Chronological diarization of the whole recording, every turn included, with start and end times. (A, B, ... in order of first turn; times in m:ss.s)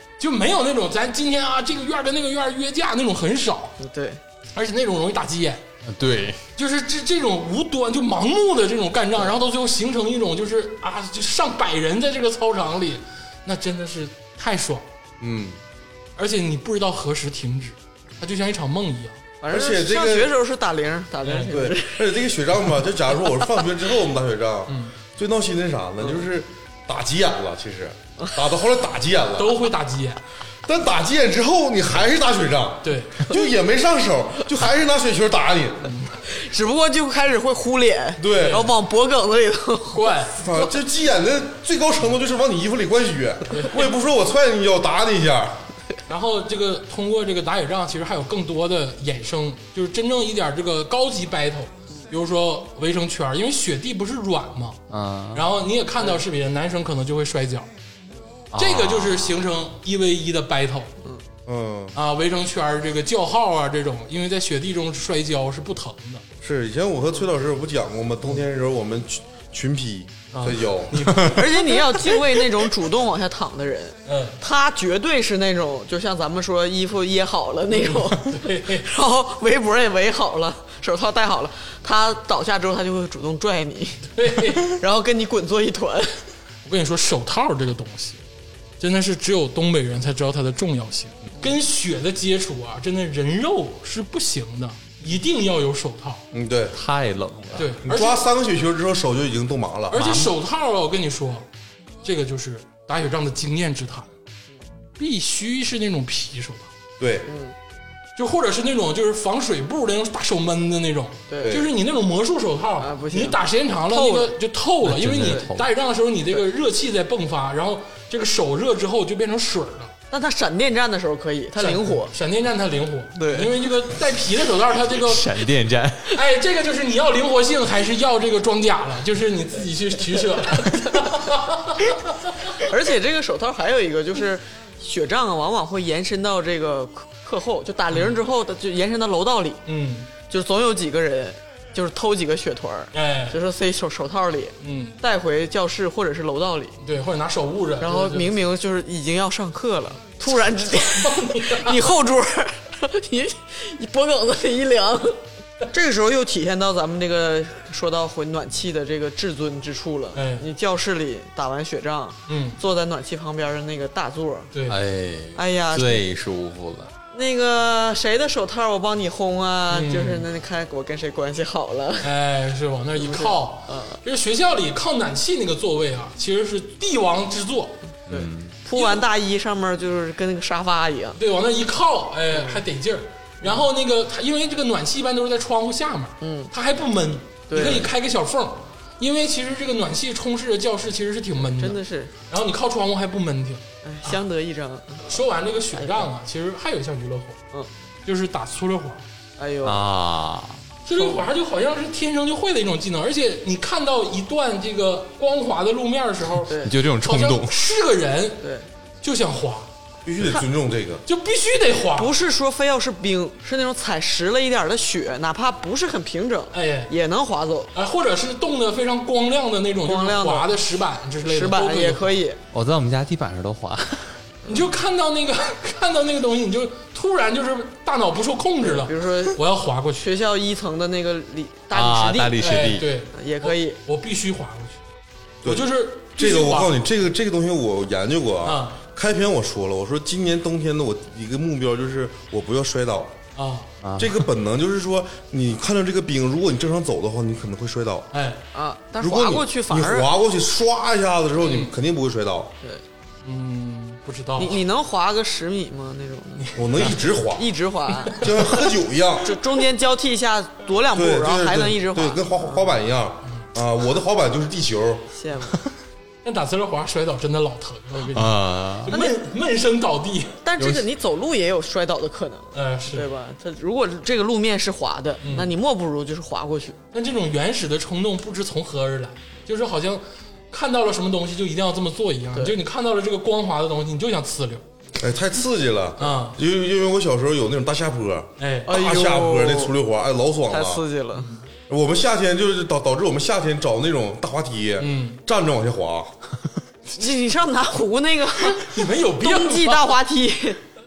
0:00.2-0:03.8 A
0:03.8-0:04.2 B
0:04.5-0:05.6 A
0:05.8-0:06.4 C
0:06.6-0:14.8 A
0:15.2-0:15.6 D
0:16.2-0:19.2 A
0:19.4-0:22.2 B
0:19.5-0:20.3 D
0:21.2-0:21.5 A
0:21.5-0:29.6 D
0:24.7-0:24.9 A
0:29.4-0:30.2 A
0:30.6-0:35.9 D
0:32.8-0:33.3 A
0:35.8-0:36.2 A
0:36.2-0:40.2 B
0:38.2-0:38.7 D
0:38.3-0:38.7 A
0:39.9-0:40.6 A
0:40.4-0:45.6 D
0:43.5-0:43.9 A
0:46.1-0:54.8 A
0:54.9-0:55.4 C
0:55.3-0:57.7 A
0:58.5-0:59.3 C
0:58.6-1:00.9 A
1:01.5-1:02.0 D
1:01.9-1:06.2 A
1:06.4-1:11.1 D
1:10.3-1:12.2 A
1:11.2-1:26.1 B
1:14.0-1:14.4 A
1:17.7-1:18.9 A
1:24.1-1:24.8 A
1:26.6-1:28.2 A
1:28.8-1:36.2 A
1:36.3-1:36.8 D
1:36.7-1:37.7 C
1:37.5-1:38.2 A
1:37.8-1:40.1 D
1:39.9-1:41.4 A
1:39.9-1:40.3 C
1:42.0-1:44.1 A
1:45.0-1:46.7 A
1:47.0-1:47.3 D
1:47.3-1:47.5 B
1:48.2-1:59.9 A
1:51.3-1:51.6 B
1:51.4-1:51.7 D
1:52.8-1:54.3 B
1:54.8-1:55.7 C
1:55.2-1:55.4 B
2:00.1-2:02.1 B
2:01.6-2:05.3 A
2:03.2-2:03.5 B
2:04.9-2:06.2 C
2:06.1-2:12.6 A
2:12.6-2:19.6 B
2:19.6-2:20.1 A
2:20.3-2:26.8 B
2:22.9-2:23.4 A
2:24.6-2:25.0 A
2:26.8-2:28.5 A
2:27.8-2:44.5 B
2:30.6-2:31.8 A
2:40.1-2:40.4 A
2:42.3-2:42.6 A
2:44.5-2:44.8 A
2:44.7-2:46.9 C
2:45.3-2:46.0 B
2:47.1-2:52.1 B
2:49.7-2:50.2 A
2:52.0-2:57.8 A
2:53.0-2:54.0 B
2:58.1-2:58.5 C
2:58.1-3:01.2 B
2:58.7-2:59.0 A
3:01.2-3:14.2 A
3:02.3-3:02.6 B
3:06.2-3:06.5 B
3:07.5-3:07.9 B
3:11.4-3:12.1 B
3:13.8-3:15.2 B
3:15.0-3:17.4 A
3:15.7-3:16.1 B
3:18.0-3:19.0 A
3:19.4-3:19.8 B
3:19.6-3:20.6 C
3:20.8-3:28.4 A
3:21.0-3:21.2 B
3:26.5-3:26.7 B
3:26.5-3:27.5 C
3:28.4-3:28.7 B
3:29.0-3:29.7 A
3:30.0-3:31.0 D
3:31.0-3:32.1 A
3:32.0-3:37.7 B
3:36.5-3:36.9 A
3:37.7-3:42.2 A
3:39.8-3:40.5 B
3:41.2-3:42.4 B
3:42.5-3:44.1 C
3:44.5-3:50.0 A
3:48.6-3:49.4 B
3:50.0-3:52.4 B
3:51.7-3:52.9 C
3:52.4-3:54.8 A
3:53.1-3:53.8 B
3:55.4-4:03.2 D
3:55.4-3:56.8 A
3:58.4-3:58.8 A
4:03.3-4:03.7 A
4:03.8-4:04.2 C
4:04.0-4:08.1 D
4:08.1-4:08.4 A
4:08.5-4:10.1 B
4:09.0-4:12.5 D
4:11.4-4:11.7 A
4:13.2-4:14.6 A
4:14.4-4:16.5 B
4:16.4-4:17.0 A
4:16.5-4:17.5 D
4:17.3-4:18.2 B
4:18.1-4:19.3 D
4:19.2-4:22.7 B
4:20.9-4:25.1 D
4:25.1-4:25.6 B
4:26.2-4:30.4 A
4:28.0-4:28.9 C
4:28.9-4:29.1 B
4:30.4-4:36.8 B
4:30.6-4:30.8 C
4:32.5-4:33.1 A
4:35.2-4:35.5 A
4:36.9-4:44.6 A
4:45.0-4:50.8 D
4:46.0-4:46.4 A
4:48.4-4:48.7 A
4:48.6-4:49.7 B
4:50.5-4:51.3 B
4:51.2-4:51.4 A
4:51.7-4:56.1 D
4:54.8-4:55.2 A
4:56.9-5:00.6 B
4:58.6-4:59.9 A